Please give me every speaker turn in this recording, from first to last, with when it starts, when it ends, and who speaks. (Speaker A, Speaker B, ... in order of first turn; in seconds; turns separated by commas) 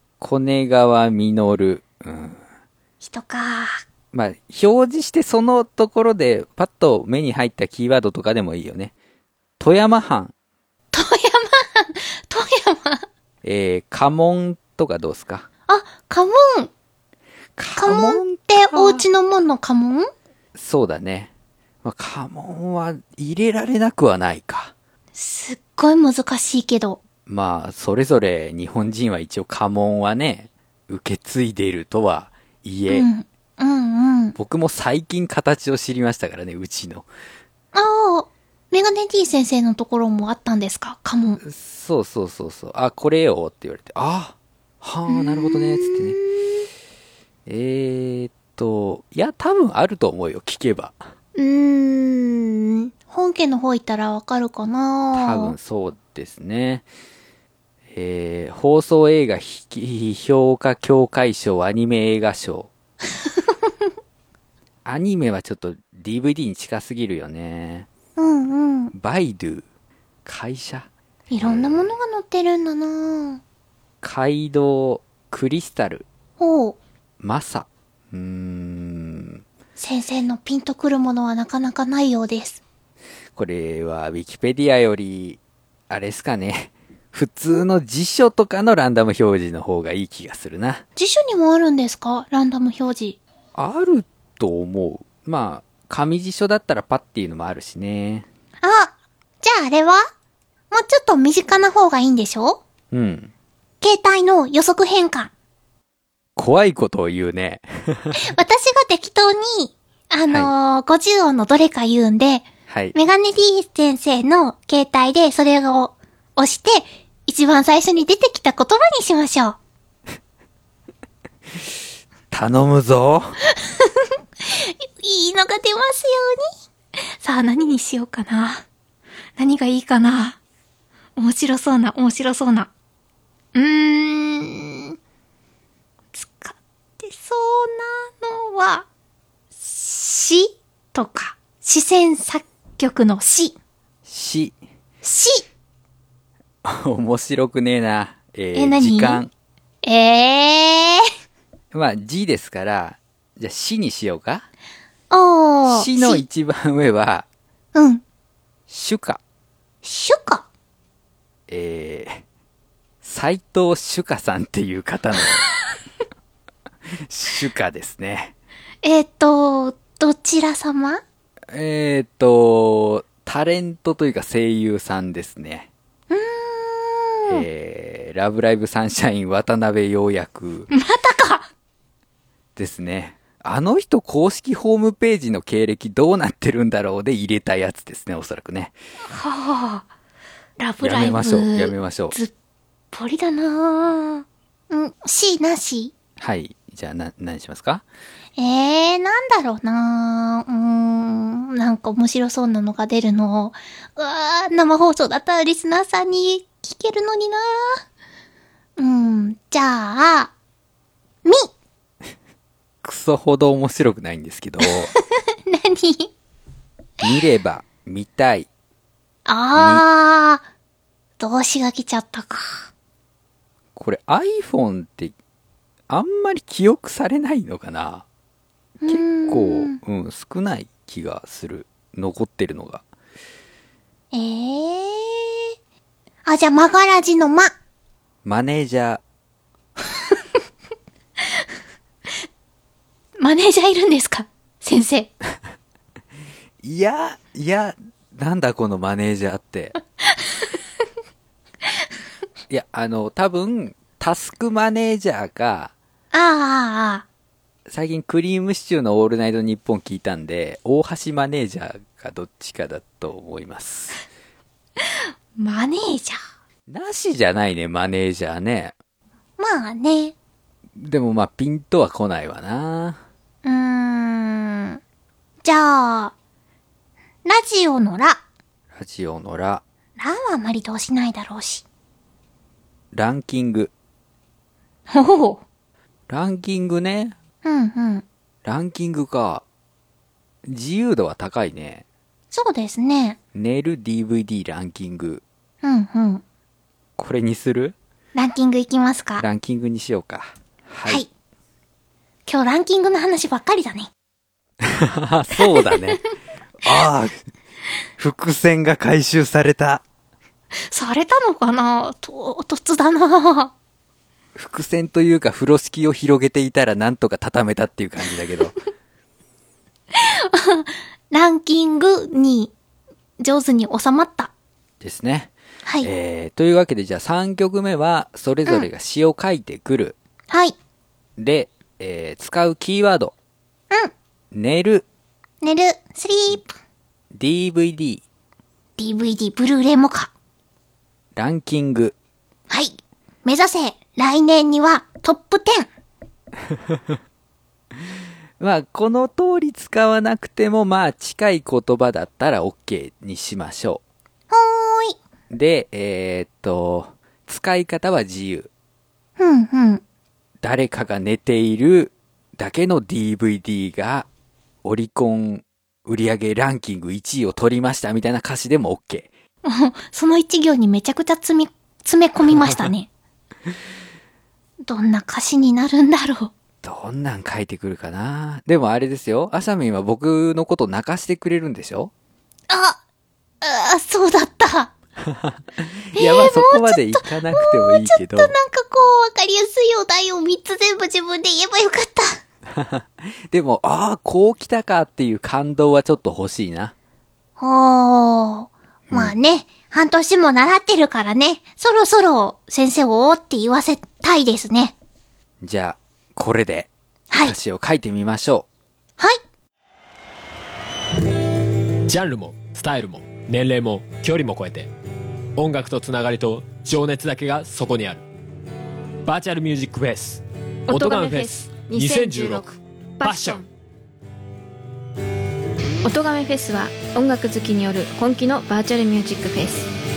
Speaker A: 0.2-2.4, Speaker B: 3.0-3.8, Speaker A: 4.1-8.9, Speaker A: 9.6-10.3, Speaker B: 10.9-13.1, Speaker A: 13.4-15.5, Speaker B: 15.7-16.7, Speaker A: 17.6-19.1, Speaker B: 17.8-20.1, Speaker A: 20.5-21.3, Speaker A: 21.8-24.7, Speaker B: 25.1-27.0, Speaker A: 27.2-33.1, Speaker B: 32.9-34.4, Speaker A: 34.4-37.1, Speaker B: 37.7-41.4, Speaker A: 41.4-46.2, Speaker B: 45.1-46.5, Speaker A: 47.5-51.0, Speaker B: 51.3-55.5, Speaker A: 55.1-56.9, Speaker A: 57.9-62.7, Speaker B: 63.2-63.7, Speaker A: 64.8-67.9, Speaker B: 68.2-68.9, Speaker A: 68.9-69.6, Speaker A: 70.2-70.9, Speaker B: 71.3-73.4, Speaker A: 71.4-71.9, Speaker A: 74.0-76.0, Speaker B: 76.4-76.8, Speaker A: 77.2-79.4, Speaker B: 79.8-82.6, Speaker A: 83.3-85.4, Speaker A: 85.9-90.8, Speaker B: 91.0-93.2, Speaker A: 93.5-98.2, Speaker B: 98.6-100.0, Speaker B: 100.7-102.6, Speaker A: 102.9-103.3, Speaker B: 103.8-105.3, Speaker A: 106.3-108.2, Speaker B: 108.2-119.6, Speaker A: 112.7-113.0, Speaker A: 122.3-123.4, Speaker B: 123.5-128.6, Speaker B: 129.4-130.4, Speaker B: 131.2-132.7, Speaker B: 133.5-134.9, Speaker B: 136.1-138.8, Speaker B: 139.6-143.6, Speaker A: 144.1-144.6, Speaker B: 145.0-145.4, Speaker A: 146.6-149.3, Speaker B: 148.5-149.2, Speaker B: 149.8-151.1, Speaker A: 151.7-154.4, Speaker B: 155.1-156.2, Speaker A: 155.7-157.2, Speaker B: 157.7-158.0, Speaker A: 158.7-159.2, Speaker B: 159.8-160.4, Speaker A: 161.5-162.2, Speaker A: 163.0-165.4, Speaker A: 167.1-168.3, Speaker B: 168.8-171.0, Speaker A: 171.5-175.7, Speaker B: 176.1-177.4, Speaker A: 177.3-180.7, Speaker B: 180.7-181.5, Speaker A: 182.6-188.7, Speaker B: 189.1-189.8, Speaker B: 190.6-192.3, Speaker A: 190.8-192.2, Speaker B: 192.9-195.9, Speaker A: 196.2-197.8, Speaker B: 198.4-207.8, Speaker B: 208.8-210.3, Speaker B: 211.2-211.5, Speaker A: 212.8-214.9, Speaker B: 214.6-216.1, Speaker A: 217.0-218.5, Speaker B: 219.2-220.4, Speaker A: 219.5-219.8, Speaker B: 221.2-222.7, Speaker A: 223.8-225.1, Speaker A: 225.9-228.0, Speaker B: 228.8-229.8, Speaker A: 228.9-232.8, Speaker B: 234.1-235.5, Speaker B: 236.2-237.5, Speaker A: 238.2-239.0, Speaker B: 243.2-245.1, Speaker A: 246.6-249.8, Speaker B: 250.1-250.6, Speaker A: 252.5-255.7, Speaker B: 256.1-257.0, Speaker A: 257.7-264.0, Speaker B: 264.8-266.2, Speaker A: 266.7-268.7, Speaker B: 269.4-270.1, Speaker A: 270.8-273.0, Speaker B: 273.4-274.8, Speaker B: 275.4-276.1, Speaker B: 277.2-278.2, Speaker A: 278.7-279.6, Speaker B: 280.0-281.6, Speaker A: 282.9-283.7, Speaker B: 284.9-285.4, Speaker A: 286.1-287.1, Speaker B: 287.4-288.0, Speaker A: 288.4-289.4, Speaker A: 290.4-291.8, Speaker B: 292.3-293.2, Speaker A: 293.3-295.2, Speaker B: 295.6-296.2, Speaker A: 297.0-297.8, Speaker B: 298.1-299.2, Speaker A: 299.2-301.0, Speaker B: 302.2-303.9, Speaker A: 304.6-306.0, Speaker B: 305.4-306.0, Speaker A: 306.6-307.2, Speaker A: 308.0-309.8, Speaker B: 310.5-313.5, Speaker A: 314.4-318.6, Speaker B: 319.9-322.5, Speaker B: 323.2-324.3, Speaker A: 324.8-330.0, Speaker B: 325.6-325.9, Speaker B: 330.3-330.6, Speaker A: 331.2-333.1, Speaker A: 334.3-334.8, Speaker B: 335.4-336.5, Speaker A: 337.1-338.0, Speaker B: 338.8-340.1, Speaker A: 341.1-341.9, Speaker B: 342.5-345.7, Speaker A: 348.4-353.8, Speaker B: 354.3-355.0, Speaker A: 355.3-358.5, Speaker B: 359.2-359.8, Speaker A: 360.4-364.1, Speaker A: 364.6-369.1, Speaker B: 369.4-372.9, Speaker A: 372.4-372.6, Speaker B: 374.6-376.3, Speaker A: 376.6-381.9, Speaker B: 382.5-382.8, Speaker B: 383.4-384.7, Speaker A: 385.0-388.3, Speaker B: 385.9-392.2, Speaker A: 392.5-396.7, Speaker B: 397.4-404.7, Speaker A: 398.9-399.1, Speaker A: 405.4-408.5, Speaker B: 407.1-407.3, Speaker C: 411.9-414.7, Speaker C: 415.4-418.0, Speaker C: 419.1-422.5, Speaker D: 420.7-423.5, Speaker C: 423.0-423.4, Speaker D: 425.8-429.7